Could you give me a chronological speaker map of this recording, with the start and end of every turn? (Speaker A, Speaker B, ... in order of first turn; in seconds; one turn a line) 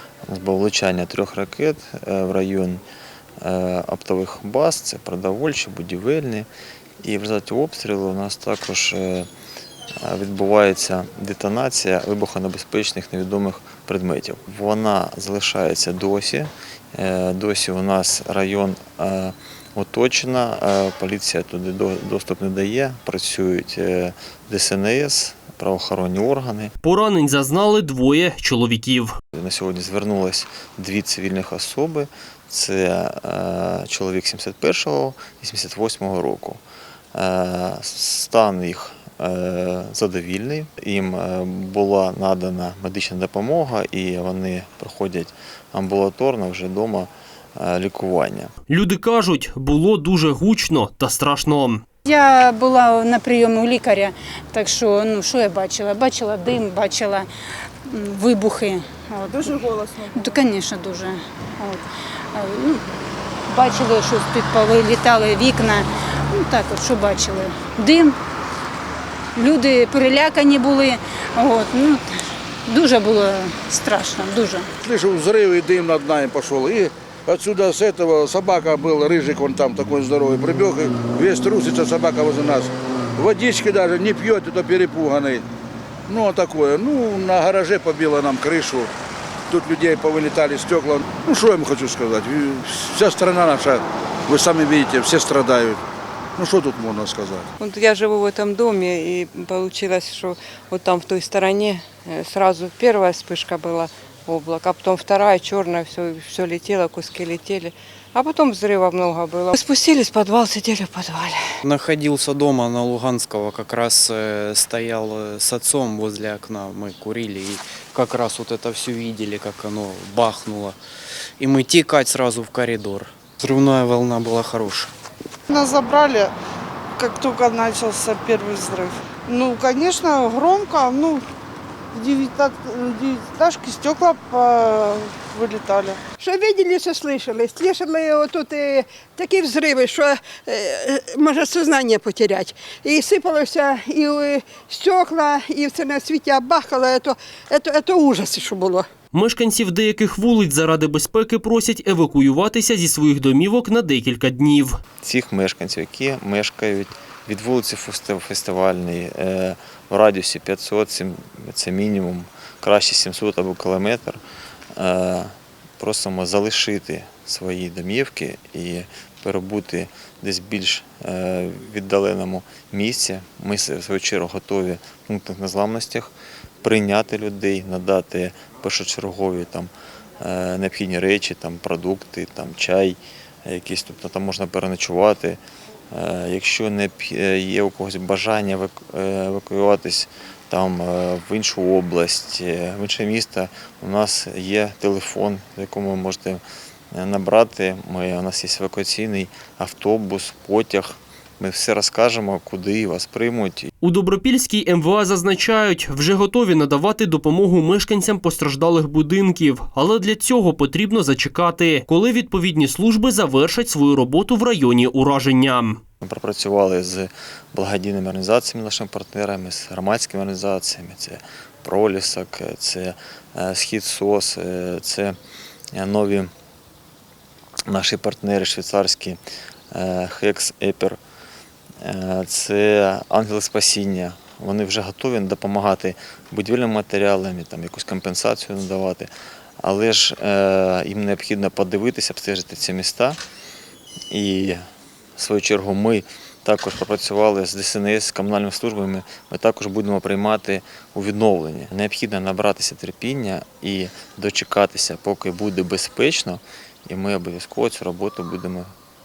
Speaker A: 0.2-2.8
Speaker A: 3.4-6.5
Speaker A: 7.0-9.3
Speaker A: 10.0-26.7
Speaker B: 26.8-29.1
Speaker A: 29.3-36.6
Speaker A: 37.1-48.5
Speaker B: 48.7-51.8
Speaker C: 52.1-57.3
Speaker C: 57.9-62.8
Speaker C: 63.5-68.2
Speaker C: 69.4-74.7
Speaker D: 74.8-85.5
Speaker D: 86.1-88.9
Speaker D: 89.5-95.8
Speaker D: 96.4-97.5
Speaker E: 97.6-111.6
Speaker F: 111.6-120.8
Speaker F: 121.4-124.9
Speaker G: 125.5-126.3
Speaker G: 127.0-131.2
Speaker G: 131.9-136.0
Speaker H: 136.2-148.9
Speaker B: 149.1-154.8
Speaker A: 155.0-164.2
Speaker A: 164.7-203.7
Speaker B: 203.8-215.8
Speaker A: 216.0-225.2
Speaker A: 225.7-226.3
Speaker A: 227.7-229.2
Speaker A: 229.7-231.0
Speaker A: 231.8-239.1
Speaker A: 239.6-243.2
Speaker A: 244.1-244.6
Speaker A: 245.2-258.7